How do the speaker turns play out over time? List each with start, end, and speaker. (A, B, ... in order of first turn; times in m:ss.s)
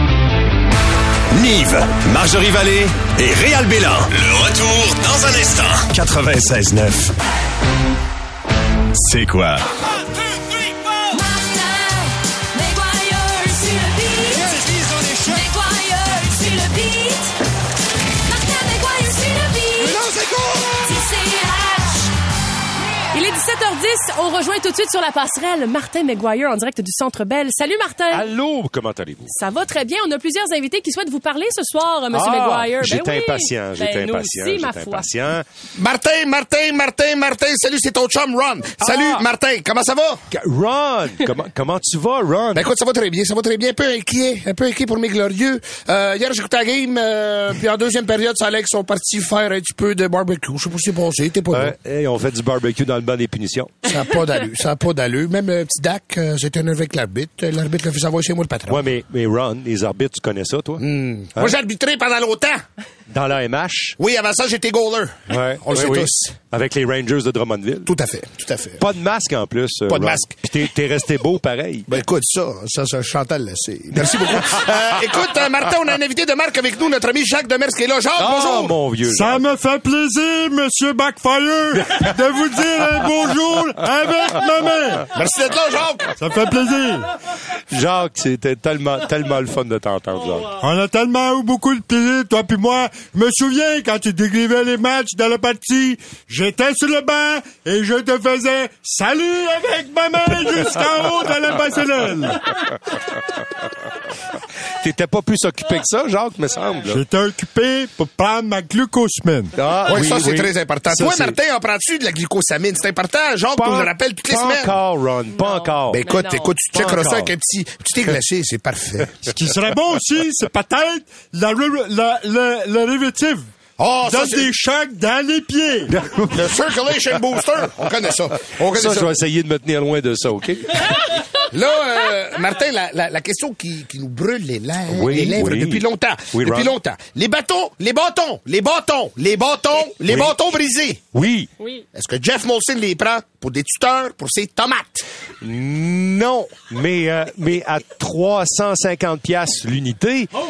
0:01.4-0:06.0 A
0:08.9-0:09.7 A
0:11.1-0:11.5 B
0:12.6-0:14.4 B
0:15.2-0:17.0 B
0:18.3-0:19.9 B
0:20.0-0:20.7 C
0:20.9-0:21.9 B
0:23.1-0:28.3 B
0:28.1-0:29.3 D
0:29.2-0:35.1 B
0:32.1-0:35.4 D
0:35.8-0:40.2 C
0:38.8-0:39.2 D
0:40.3-0:42.7 D
0:42.5-0:51.7 C
0:51.5-0:53.8 D
0:53.8-0:58.9 C
0:58.7-1:00.8 D
1:00.8-1:02.6 C
1:03.1-1:04.0 D
1:04.0-1:06.4 C
1:05.3-1:07.9 D
1:07.8-1:08.8 C
1:08.8-1:11.9 D
1:09.9-1:10.3 C
1:11.9-1:18.8 C
1:18.2-1:19.4 D
1:19.0-1:25.1 E
1:25.1-1:26.1 C
1:26.2-1:27.1 E
1:27.7-1:30.5 D
1:30.5-1:42.6 E
1:44.8-1:47.0 D
1:46.8-1:49.6 E
1:49.6-1:51.4 D
1:49.8-1:54.8 C
1:53.5-1:57.3 D
1:55.3-1:56.6 B
1:55.9-1:59.2 C
1:59.3-2:03.5 E
2:03.8-2:04.5 C
2:04.0-2:05.9 E
2:05.9-2:06.4 D
2:06.3-2:09.2 C
2:08.7-2:10.8 D
2:11.4-2:21.0 C
2:14.8-2:16.7 D
2:20.1-2:20.3 D
2:21.1-2:21.5 D
2:21.6-2:21.8 B
2:21.9-2:25.0 C
2:25.4-2:30.3 D